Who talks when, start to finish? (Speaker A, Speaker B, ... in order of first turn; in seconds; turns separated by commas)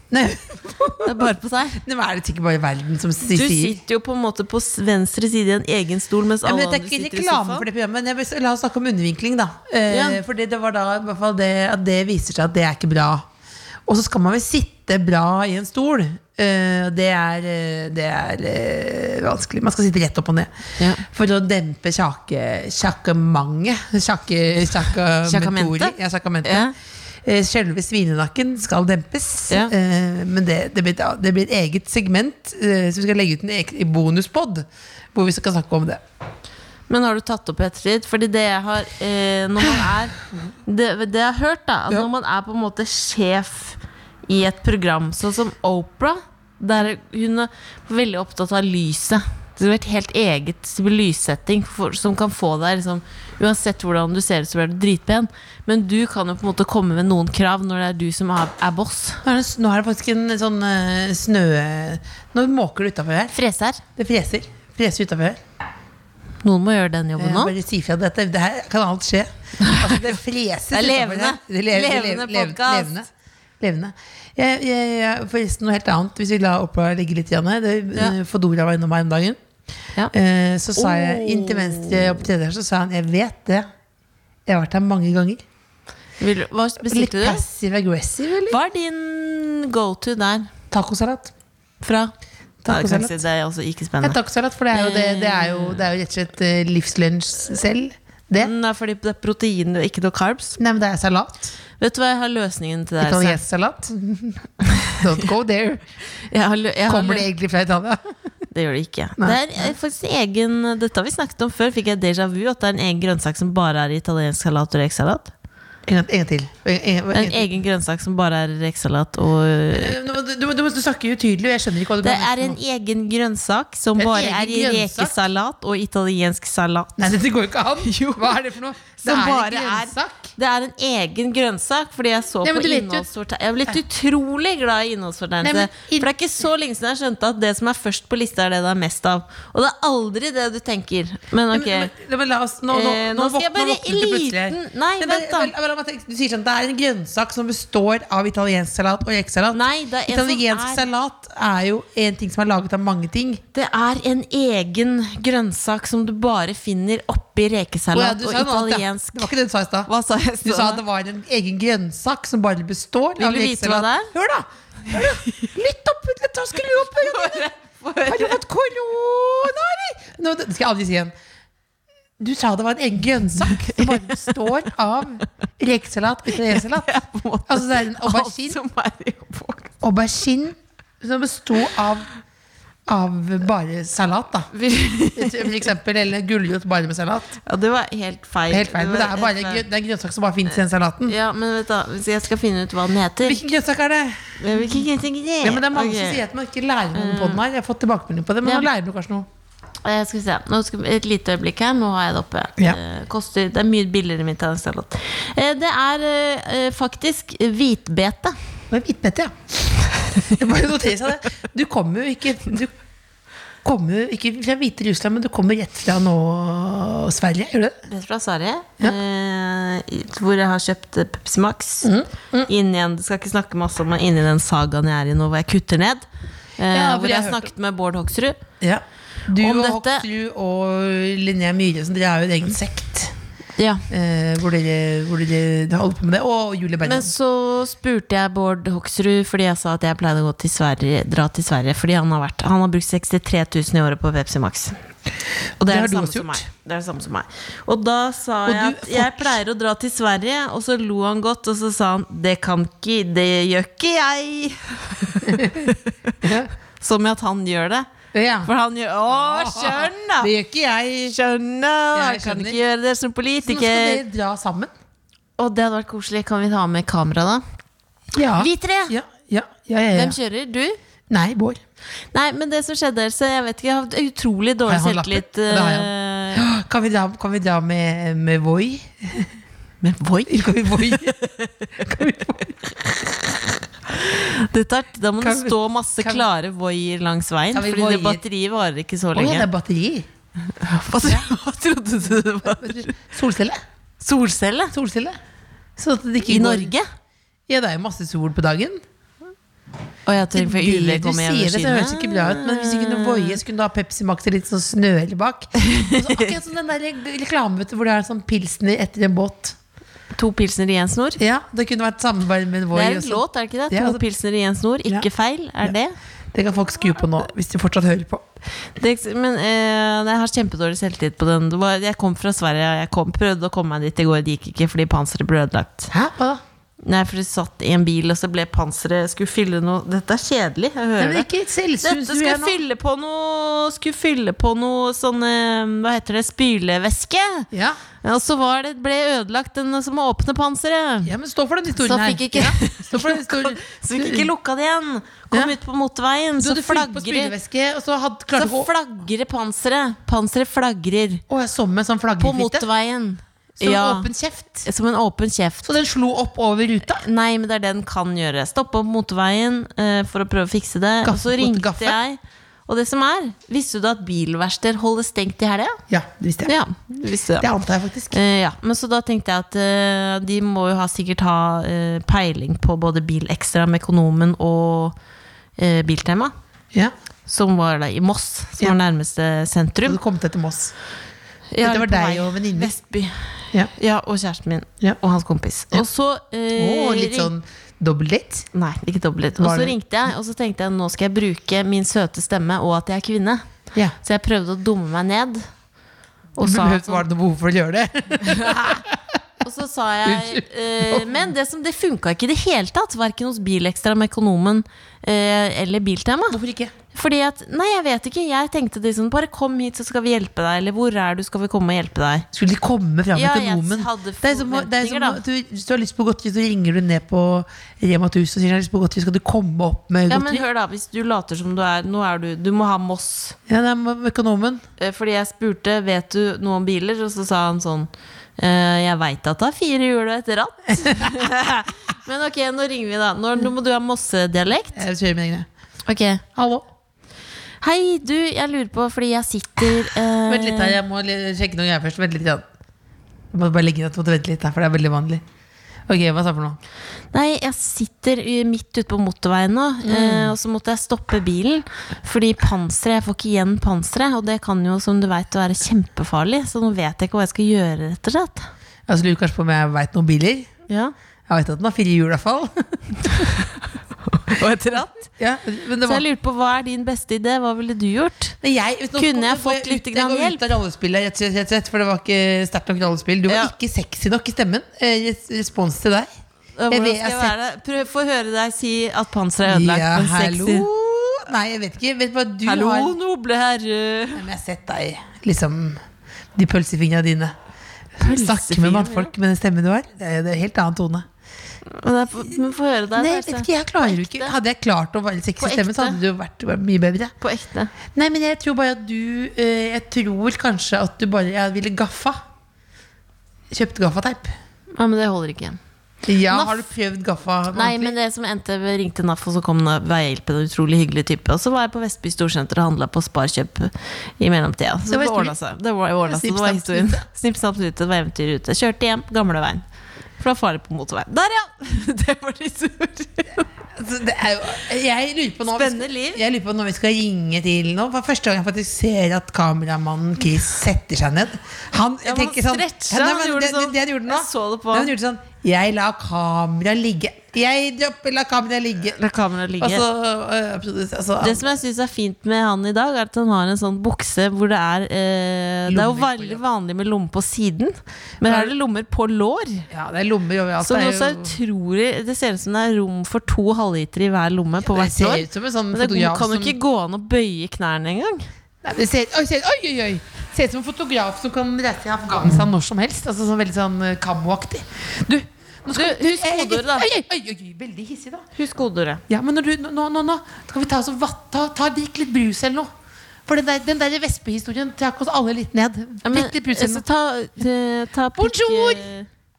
Speaker A: 0.1-3.8, Speaker B: 1.0-1.8, Speaker B: 3.3-7.7, Speaker A: 6.4-13.3, Speaker B: 9.9-10.2, Speaker A: 13.9-20.5, Speaker B: 20.8-21.1, Speaker A: 21.1-26.7, Speaker B: 25.2-26.7, Speaker A: 27.2-36.0, Speaker B: 36.9-40.1, Speaker B: 40.6-59.2, Speaker A: 59.2-63.4, Speaker B: 63.3-63.8, Speaker A: 64.0-65.4, Speaker B: 66.4-67.5, Speaker A: 67.2-79.4, Speaker B: 69.6-70.0, Speaker B: 70.7-73.0, Speaker A: 80.1-83.7, Speaker B: 80.8-82.2, Speaker A: 84.5-85.4, Speaker B: 86.2-87.4, Speaker A: 86.9-88.6, Speaker B: 88.5-90.5, Speaker A: 90.7-91.3, Speaker B: 91.8-92.1, Speaker A: 92.6-93.2, Speaker B: 92.7-94.2, Speaker A: 94.0-98.5, Speaker B: 94.7-95.9, Speaker B: 98.4-100.6, Speaker A: 100.6-101.5, Speaker B: 101.8-103.4, Speaker A: 103.0-105.8, Speaker B: 104.6-105.0, Speaker B: 106.3-107.3, Speaker A: 106.9-108.0, Speaker B: 108.5-115.3, Speaker A: 109.2-109.7, Speaker A: 115.9-117.5, Speaker B: 117.1-120.0, Speaker A: 119.7-122.6, Speaker B: 122.0-127.1, Speaker A: 124.0-125.2, Speaker A: 127.0-130.3, Speaker B: 127.8-128.4, Speaker B: 129.0-141.9, Speaker A: 132.4-133.1, Speaker A: 135.4-136.1, Speaker A: 141.5-153.4, Speaker B: 142.7-145.5, Speaker B: 149.5-150.9, Speaker B: 153.5-159.3, Speaker A: 157.9-159.9, Speaker B: 159.9-160.8, Speaker A: 160.4-167.5, Speaker B: 163.2-164.1, Speaker B: 167.0-168.4, Speaker A: 168.0-171.1, Speaker A: 172.2-176.9, Speaker B: 173.5-174.4, Speaker B: 176.3-179.7, Speaker A: 177.5-178.6, Speaker A: 179.8-182.1, Speaker A: 182.9-184.5, Speaker B: 184.5-185.7, Speaker A: 185.1-187.4, Speaker B: 187.5-189.7, Speaker A: 188.5-191.2, Speaker B: 191.1-193.4, Speaker A: 193.2-194.6, Speaker B: 194.4-196.2, Speaker A: 195.4-199.3, Speaker B: 196.9-197.4, Speaker B: 198.4-198.7, Speaker B: 199.8-208.4, Speaker A: 208.7-209.3, Speaker A: 210.3-212.7, Speaker A: 213.6-217.8, Speaker B: 217.9-221.9, Speaker A: 221.8-222.5, Speaker B: 222.5-226.1, Speaker B: 226.6-228.4, Speaker A: 226.7-227.5, Speaker A: 228.6-233.1, Speaker B: 229.4-230.1, Speaker B: 233.6-233.8, Speaker A: 233.9-237.1, Speaker B: 236.8-244.8, Speaker A: 245.6-246.4, Speaker B: 245.6-256.2, Speaker A: 248.5-249.4, Speaker A: 255.2-256.5, Speaker B: 256.8-257.9, Speaker A: 258.1-258.5, Speaker B: 258.4-260.3, Speaker A: 259.1-261.2, Speaker B: 261.1-264.0, Speaker A: 261.9-262.6, Speaker A: 263.4-264.7, Speaker B: 265.4-267.4, Speaker A: 268.1-270.2, Speaker B: 268.4-268.9, Speaker B: 269.9-270.8, Speaker A: 271.1-271.6, Speaker B: 272.1-276.4, Speaker A: 274.7-279.3, Speaker B: 279.8-282.5, Speaker A: 280.3-281.2, Speaker A: 281.8-282.7, Speaker B: 283.9-289.5, Speaker A: 285.2-286.3, Speaker A: 287.5-288.2, Speaker A: 289.1-290.1, Speaker B: 290.5-293.0, Speaker A: 291.0-291.3, Speaker A: 292.4-293.6, Speaker B: 294.0-294.7, Speaker A: 294.7-295.2, Speaker A: 295.8-296.7, Speaker B: 296.3-296.9, Speaker A: 297.5-298.8, Speaker B: 300.1-303.4, Speaker A: 300.3-309.6, Speaker B: 305.6-306.3, Speaker B: 310.1-311.2, Speaker A: 311.2-314.0, Speaker B: 312.7-315.9, Speaker A: 316.3-318.2, Speaker B: 318.8-325.9, Speaker A: 325.9-326.4, Speaker B: 326.8-331.3, Speaker A: 331.0-332.6, Speaker B: 331.8-337.5, Speaker A: 337.5-337.8, Speaker B: 338.0-341.1, Speaker A: 341.1-344.3, Speaker B: 341.7-347.3, Speaker A: 345.3-345.6, Speaker A: 346.4-348.7, Speaker B: 348.4-351.2, Speaker A: 351.3-352.7, Speaker B: 352.2-354.1, Speaker A: 353.6-354.7, Speaker B: 354.6-355.7, Speaker A: 355.6-357.0, Speaker B: 356.9-365.8, Speaker A: 361.0-362.0, Speaker A: 365.9-366.5, Speaker B: 366.4-367.5, Speaker A: 367.4-368.2, Speaker B: 368.1-375.0, Speaker B: 375.6-376.3, Speaker B: 377.3-380.0, Speaker A: 379.9-380.7, Speaker B: 381.5-387.3, Speaker A: 381.6-382.7, Speaker A: 386.6-388.5, Speaker B: 388.5-393.5, Speaker A: 389.4-389.8, Speaker B: 394.0-395.5, Speaker B: 396.4-397.1, Speaker A: 396.4-399.2, Speaker B: 398.2-398.7, Speaker B: 399.4-406.4, Speaker A: 400.1-401.2, Speaker A: 406.3-406.7, Speaker B: 406.9-412.3, Speaker A: 412.3-420.4, Speaker B: 413.1-415.2, Speaker B: 420.1-423.4, Speaker A: 423.5-424.6, Speaker B: 424.8-434.8, Speaker A: 430.8-431.1, Speaker A: 434.7-435.5, Speaker B: 435.9-436.2, Speaker A: 436.4-436.7, Speaker B: 437.6-440.8, Speaker A: 440.3-442.4, Speaker A: 443.3-445.2, Speaker A: 445.9-446.6, Speaker B: 447.1-458.5, Speaker A: 449.8-450.3, Speaker A: 458.9-460.5, Speaker B: 460.7-460.9, Speaker A: 461.3-463.3, Speaker B: 464.1-465.1, Speaker A: 465.2-466.0, Speaker B: 465.8-468.4, Speaker A: 468.4-476.1, Speaker B: 469.0-470.4, Speaker B: 473.3-473.5, Speaker B: 476.6-480.7, Speaker A: 476.7-477.3, Speaker A: 479.4-483.0, Speaker B: 482.4-484.3, Speaker A: 484.1-485.8, Speaker A: 486.4-487.3, Speaker A: 488.0-491.1, Speaker B: 488.0-489.1, Speaker B: 491.7-494.4, Speaker A: 492.9-497.1, Speaker B: 495.4-496.0, Speaker B: 497.2-497.7, Speaker A: 497.9-502.2, Speaker A: 503.5-504.3, Speaker B: 504.8-505.6, Speaker A: 506.1-507.9, Speaker B: 506.3-506.6, Speaker B: 507.5-519.6, Speaker A: 514.9-515.4, Speaker A: 516.1-517.0, Speaker B: 520.2-523.5, Speaker A: 523.8-539.0, Speaker B: 525.5-526.2, Speaker B: 532.0-534.9, Speaker B: 539.0-539.9, Speaker A: 539.6-541.5, Speaker B: 541.2-549.7, Speaker A: 545.7-546.4, Speaker A: 548.2-548.5, Speaker A: 549.7-551.4, Speaker B: 550.6-558.3, Speaker A: 554.6-556.6, Speaker A: 558.6-568.2, Speaker B: 565.7-566.9, Speaker B: 568.4-569.0, Speaker A: 569.1-572.7, Speaker A: 573.3-576.8, Speaker B: 576.0-579.1, Speaker A: 578.2-578.9